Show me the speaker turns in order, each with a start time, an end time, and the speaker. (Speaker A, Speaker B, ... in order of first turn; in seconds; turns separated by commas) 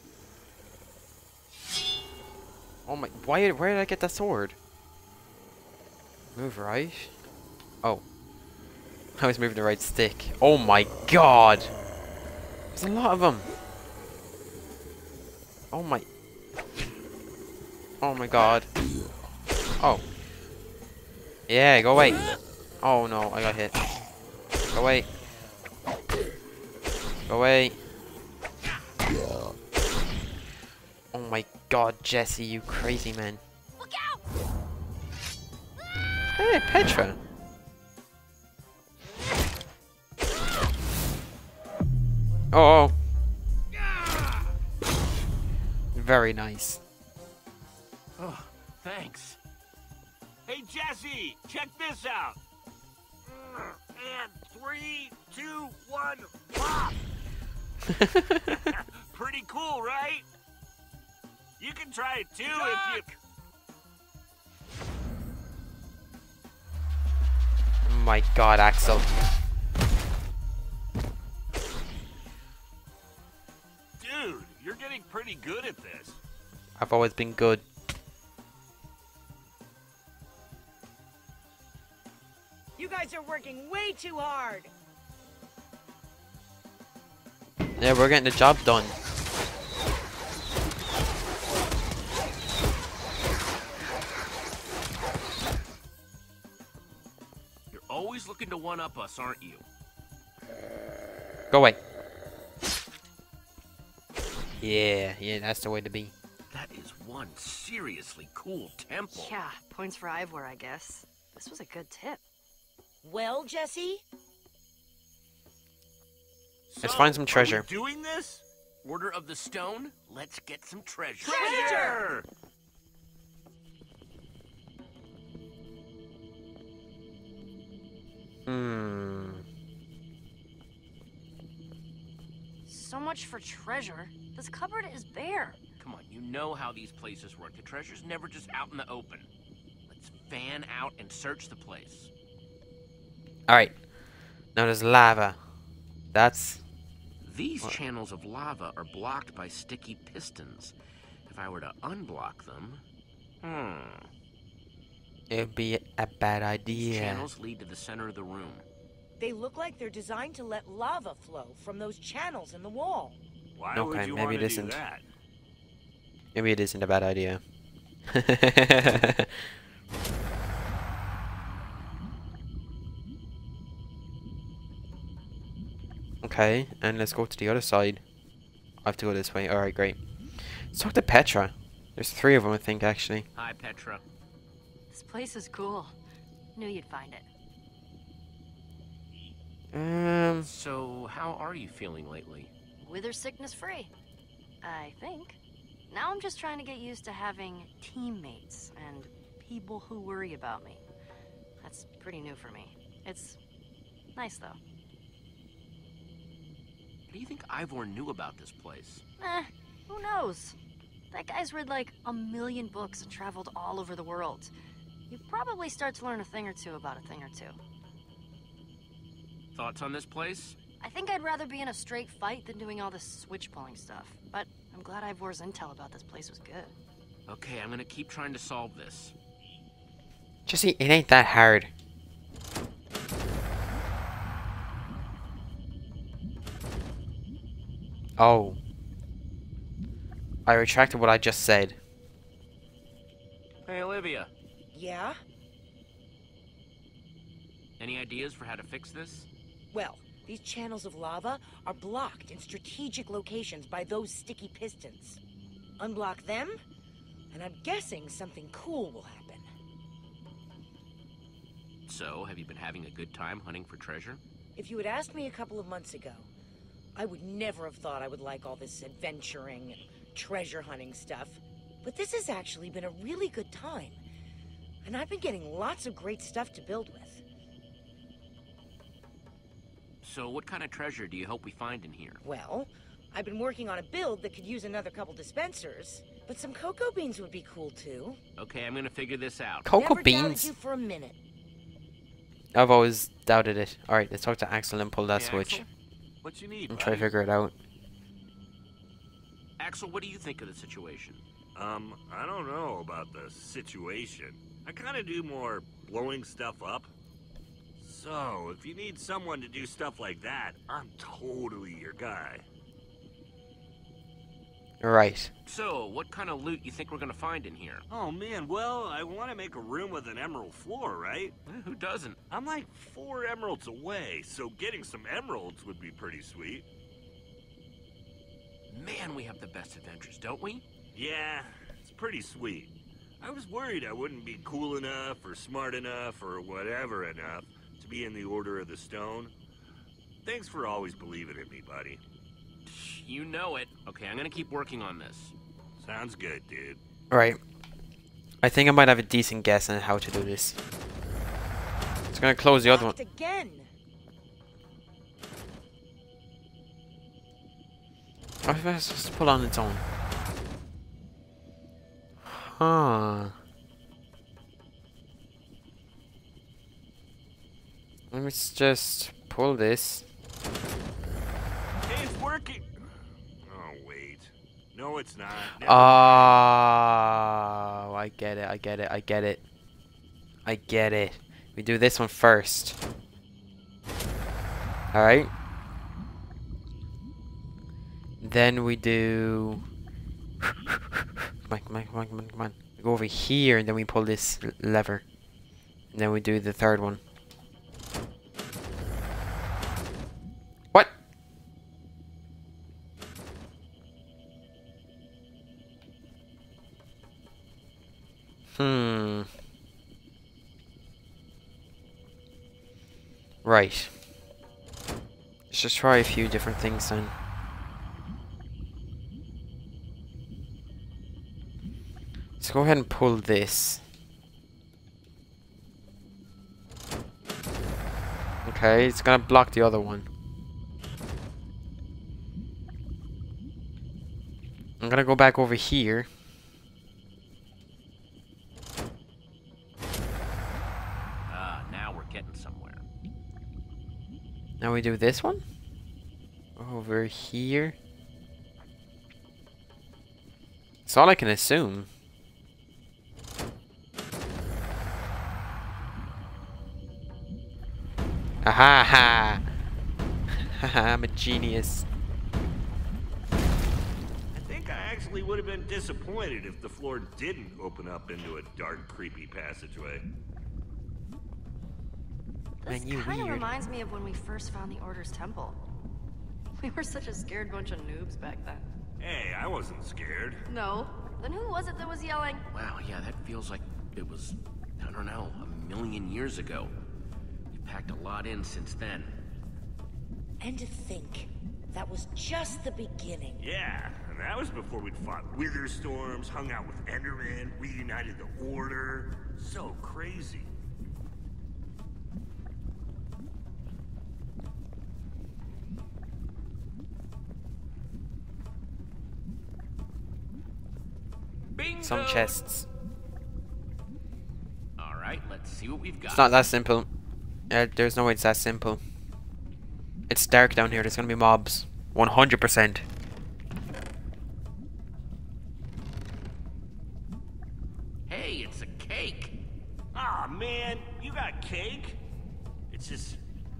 Speaker A: 2.9-4.5, Speaker A: 6.3-7.1, Speaker A: 9.2-11.7, Speaker A: 12.7-13.5, Speaker A: 15.7-16.0, Speaker A: 18.0-18.7, Speaker A: 19.8-20.0, Speaker A: 21.5-22.2, Speaker A: 22.8-23.8, Speaker A: 24.7-25.1, Speaker A: 27.3-27.8, Speaker A: 31.1-33.4, Speaker B: 33.8-34.1, Speaker A: 36.4-37.2, Speaker A: 42.5-42.9, Speaker C: 43.7-44.5, Speaker A: 45.9-46.8, Speaker D: 48.2-49.4, Speaker C: 50.5-52.4, Speaker C: 53.3-57.0, Speaker A: 57.9-58.6, Speaker C: 58.5-60.2, Speaker C: 61.6-63.1, Speaker D: 62.5-63.0, Speaker A: 67.8-69.1, Speaker C: 74.0-76.2, Speaker A: 76.8-77.6, Speaker E: 82.8-84.7, Speaker A: 87.8-89.0, Speaker D: 97.7-99.6, Speaker A: 101.5-101.8, Speaker A: 104.6-106.1, Speaker D: 106.5-109.3, Speaker B: 109.1-112.2, Speaker E: 113.0-114.0, Speaker C: 116.7-118.4, Speaker A: 116.8-117.7, Speaker D: 118.8-122.1, Speaker C: 121.2-122.2, Speaker E: 121.2-122.0, Speaker A: 128.5-129.4, Speaker B: 132.7-135.6, Speaker D: 135.8-139.3, Speaker D: 139.9-142.1, Speaker A: 143.5-143.7, Speaker A: 144.5-145.4, Speaker A: 146.1-146.6, Speaker D: 147.2-150.7, Speaker D: 151.3-152.8, Speaker D: 153.4-154.1, Speaker A: 155.3-157.3, Speaker D: 156.7-158.6, Speaker E: 159.2-163.2, Speaker C: 163.6-165.0, Speaker A: 163.7-164.8, Speaker A: 166.3-167.4, Speaker A: 168.1-169.5, Speaker A: 176.2-178.0, Speaker A: 178.8-183.2, Speaker D: 183.3-184.0, Speaker B: 184.9-185.9, Speaker B: 186.5-187.3, Speaker A: 189.7-190.5, Speaker D: 190.4-192.5, Speaker B: 192.8-193.9, Speaker B: 194.6-195.4, Speaker B: 195.9-200.8, Speaker B: 201.6-203.4, Speaker B: 204.2-204.6, Speaker D: 207.1-209.0, Speaker B: 209.2-210.6, Speaker B: 211.1-214.5, Speaker B: 215.1-217.6, Speaker D: 219.5-220.6, Speaker B: 220.8-226.7, Speaker D: 227.3-229.1, Speaker A: 230.4-231.7, Speaker A: 238.2-238.6, Speaker A: 240.4-241.8, Speaker D: 243.6-244.3, Speaker E: 244.7-245.2, Speaker D: 247.8-249.3, Speaker E: 249.7-255.2, Speaker E: 255.8-256.6, Speaker E: 257.3-259.5, Speaker D: 261.9-264.2, Speaker E: 264.6-266.3, Speaker E: 266.9-274.0, Speaker E: 274.8-277.2, Speaker D: 280.0-282.2, Speaker E: 282.2-288.2, Speaker D: 288.4-289.7, Speaker A: 289.6-290.5, Speaker E: 289.7-291.2, Speaker A: 292.5-295.6, Speaker C: 295.1-295.6, Speaker C: 296.2-297.1, Speaker A: 296.7-297.5, Speaker D: 299.6-301.2, Speaker C: 301.5-306.9, Speaker C: 307.8-312.4, Speaker A: 314.8-315.3, Speaker D: 315.4-317.8, Speaker C: 317.9-321.4, Speaker D: 321.4-322.2, Speaker C: 322.3-326.6, Speaker D: 328.7-330.6, Speaker C: 330.9-339.3, Speaker C: 340.2-342.0, Speaker D: 342.6-345.3, Speaker C: 345.8-346.8, Speaker A: 347.1-347.4, Speaker A: 348.4-350.6, Speaker A: 352.1-352.9, Speaker E: 352.6-353.7, Speaker A: 358.4-359.8, Speaker A: 362.2-363.3, Speaker A: 368.1-370.0, Speaker C: 371.8-372.7, Speaker C: 373.4-376.4, Speaker A: 375.6-379.4, Speaker A: 380.4-382.8, Speaker A: 384.9-385.3, Speaker A: 388.2-389.6, Speaker A: 390.4-395.0, Speaker A: 395.9-397.0, Speaker A: 408.6-409.3, Speaker A: 413.4-413.9, Speaker A: 415.5-417.1, Speaker A: 422.4-423.8, Speaker A: 428.4-430.1, Speaker A: 434.8-436.1, Speaker D: 441.3-442.8, Speaker A: 444.6-445.4, Speaker A: 446.6-447.7, Speaker A: 450.9-451.9, Speaker A: 458.4-459.4, Speaker A: 460.4-461.8, Speaker C: 464.3-470.1, Speaker B: 472.6-475.6, Speaker A: 472.6-473.5, Speaker B: 476.6-478.6, Speaker C: 479.0-480.4, Speaker B: 480.5-482.4, Speaker D: 482.5-486.7, Speaker D: 487.5-489.1, Speaker E: 490.4-493.4, Speaker C: 493.4-500.5, Speaker D: 511.5-512.4, Speaker A: 511.8-512.6, Speaker D: 514.8-516.3, Speaker A: 516.1-516.9, Speaker A: 517.5-518.8, Speaker A: 520.1-522.8, Speaker D: 528.1-529.4, Speaker C: 529.9-532.0, Speaker C: 532.7-533.2